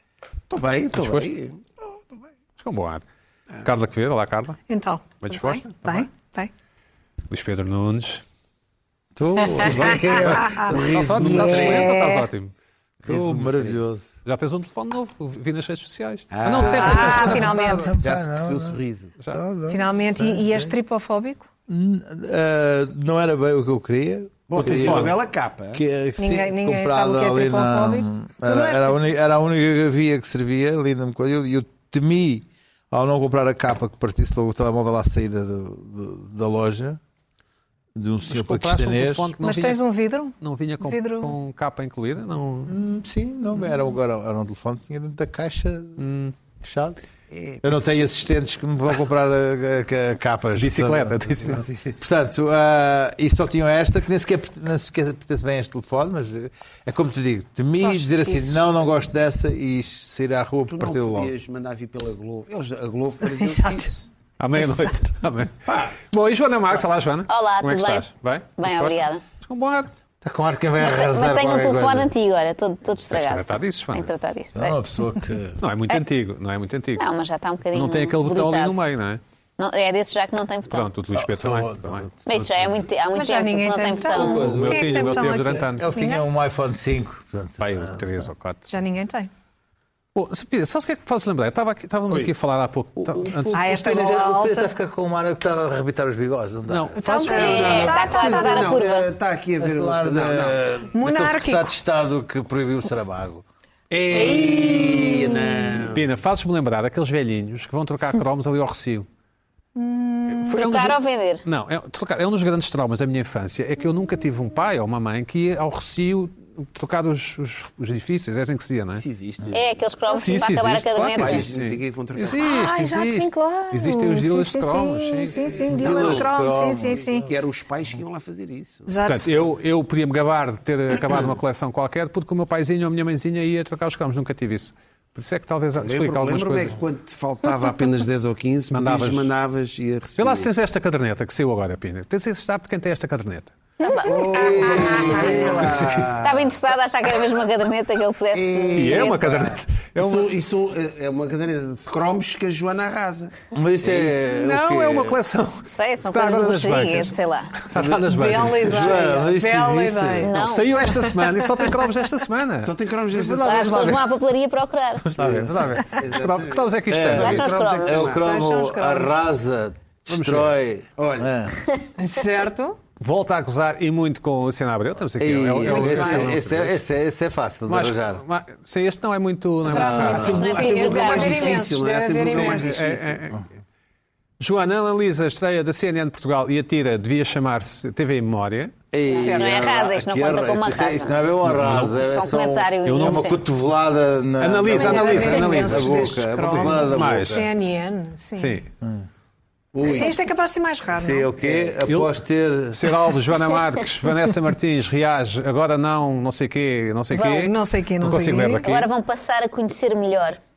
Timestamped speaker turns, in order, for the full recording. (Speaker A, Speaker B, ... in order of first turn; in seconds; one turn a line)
Speaker A: 0.5-2.2
Speaker B: 0.9-1.3
Speaker B: 2.6-3.0
Speaker B: 3.6-4.6
Speaker C: 4.7-6.5
Speaker B: 5.2-6.1
Speaker B: 7.3-8.2
Speaker D: 9.2-11.9
Speaker C: 9.6-12.3
Speaker A: 9.7-11.9
Speaker B: 10.7-12.5
Speaker D: 13.1-14.1
Speaker A: 13.1-13.6
Speaker B: 14.2-17.9
Speaker A: 16.3-19.2
Speaker C: 16.6-18.0
Speaker D: 16.8-20.8
Speaker C: 19.7-21.5
Speaker D: 21.7-25.2
Speaker A: 24.5-25.8
Speaker B: 24.6-25.2
Speaker D: 25.7-37.0
Speaker C: 26.2-29.0
Speaker D: 38.0-39.3
Speaker B: 38.3-39.8
Speaker C: 39.4-41.3
Speaker B: 40.4-42.8
Speaker D: 42.7-46.0
Speaker B: 46.0-46.3
Speaker D: 46.6-47.0
Speaker A: 47.3-47.7
Speaker D: 47.6-61.3
Speaker B: 50.6-51.6
Speaker A: 51.5-51.9
Speaker C: 57.8-58.6
Speaker A: 60.7-64.0
Speaker C: 63.3-63.9
Speaker B: 64.4-69.9
Speaker C: 64.6-64.8
Speaker E: 67.3-68.1
Speaker E: 68.6-69.2
Speaker D: 70.2-72.1
Speaker E: 70.8-74.8
Speaker B: 73.1-74.1
Speaker D: 74.5-75.6
Speaker B: 75.6-77.1
Speaker E: 77.0-78.8
Speaker B: 77.7-79.2
Speaker E: 79.6-80.9
Speaker B: 80.7-82.5
Speaker D: 81.1-82.2
Speaker E: 82.3-84.5
Speaker C: 83.1-86.3
Speaker D: 84.0-88.3
Speaker B: 84.4-85.9
Speaker B: 87.6-88.7
Speaker C: 88.7-89.3
Speaker B: 90.2-93.6
Speaker D: 93.1-97.0
Speaker C: 93.5-94.7
Speaker B: 96.7-97.0
Speaker C: 97.0-98.8
Speaker E: 97.0-99.1
Speaker A: 97.2-100.6
Speaker D: 99.6-103.5
Speaker C: 100.9-101.7
Speaker A: 103.9-106.1
Speaker D: 104.1-105.3
Speaker C: 104.1-105.6
Speaker B: 105.9-109.1
Speaker C: 109.8-110.6
Speaker B: 110.3-119.0
Speaker E: 110.5-111.5
Speaker A: 119.0-119.7
Speaker E: 119.5-121.4
Speaker B: 120.1-126.1
Speaker A: 121.1-122.5
Speaker C: 122.4-127.3
Speaker D: 125.7-127.3
Speaker A: 125.7-126.2
Speaker A: 127.2-128.9
Speaker C: 128.9-129.3
Speaker B: 129.1-136.7
Speaker A: 135.8-140.5
Speaker B: 138.7-139.3
Speaker B: 140.2-143.6
Speaker E: 143.8-145.5
Speaker A: 144.0-146.5
Speaker D: 144.1-146.3
Speaker B: 145.7-146.1
Speaker E: 146.2-149.2
Speaker A: 148.3-153.4
Speaker B: 148.7-150.3
Speaker D: 153.5-155.2
Speaker B: 154.2-159.0
Speaker E: 155.7-157.6
Speaker D: 157.8-160.3
Speaker C: 158.0-160.3
Speaker E: 160.2-160.7
Speaker B: 160.3-164.0
Speaker C: 160.8-161.7
Speaker A: 162.6-164.0
Speaker E: 163.4-165.0
Speaker B: 165.0-167.4
Speaker D: 165.2-165.4
Speaker A: 165.3-168.2
Speaker D: 166.9-171.6
Speaker E: 167.1-168.1
Speaker C: 168.1-169.1
Speaker B: 170.1-170.5
Speaker A: 171.0-171.3
Speaker C: 172.0-172.8
Speaker B: 173.0-176.7
Speaker D: 175.2-178.2
Speaker A: 175.7-176.3
Speaker B: 177.7-180.6
Speaker C: 179.7-182.8
Speaker A: 179.7-183.1
Speaker D: 179.8-180.6
Speaker E: 180.0-181.7
Speaker B: 182.3-183.4
Speaker B: 184.4-188.7
Speaker D: 188.9-197.5
Speaker E: 189.1-191.2
Speaker B: 191.5-191.9
Speaker E: 191.9-193.4
Speaker B: 192.8-193.3
Speaker B: 194.4-197.4
Speaker C: 194.7-198.6
Speaker B: 198.4-198.7
Speaker A: 199.7-200.1
Speaker C: 199.8-201.3
Speaker D: 200.9-202.9
Speaker B: 201.8-202.1
Speaker B: 202.7-208.9
Speaker E: 207.1-207.4
Speaker C: 207.4-208.6
Speaker E: 208.6-210.4